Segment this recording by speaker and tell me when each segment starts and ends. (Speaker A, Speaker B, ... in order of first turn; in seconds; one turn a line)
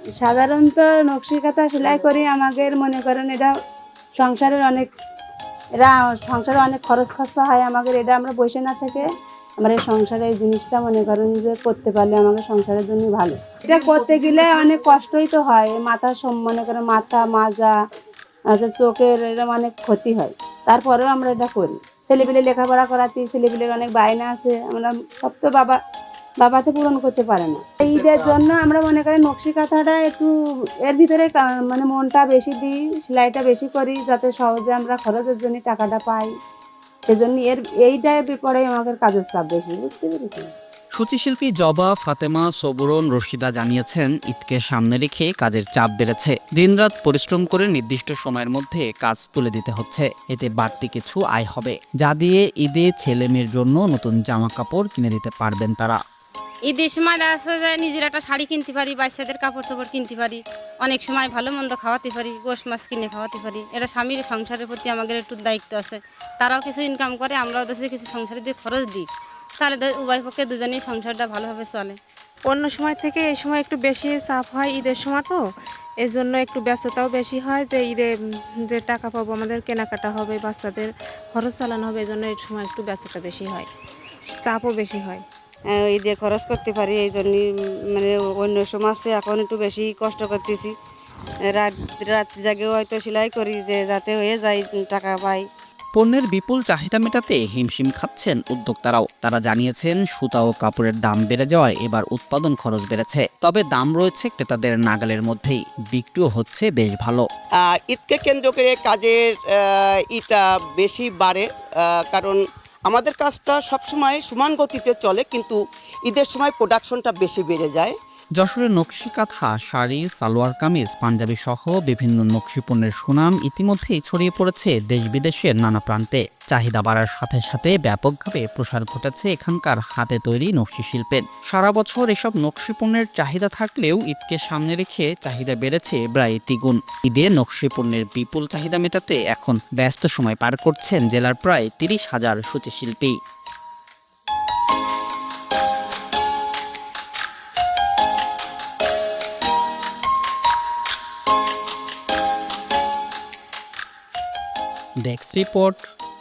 Speaker A: 0.2-3.5
Speaker A: 4.2-4.9
Speaker A: 5.8-9.1
Speaker A: 9.6-17.7
Speaker A: 18.5-25.8
Speaker A: 26.4-30.3
Speaker A: 30.9-36.3
Speaker A: 37.1-40.5
Speaker B: 41.0-56.0
Speaker C: 56.7-69.1
Speaker C: 69.6-72.0
Speaker D: 72.5-75.4
Speaker D: 76.0-78.1
Speaker D: 78.7-83.7
Speaker D: 84.4-85.2
Speaker E: 85.7-90.7
Speaker E: 91.5-95.5
Speaker B: 96.0-107.2
Speaker F: 107.7-109.6
Speaker F: 110.1-111.5
Speaker F: 112.1-117.9
Speaker B: 118.4-143.1
Speaker B: 155.0-155.9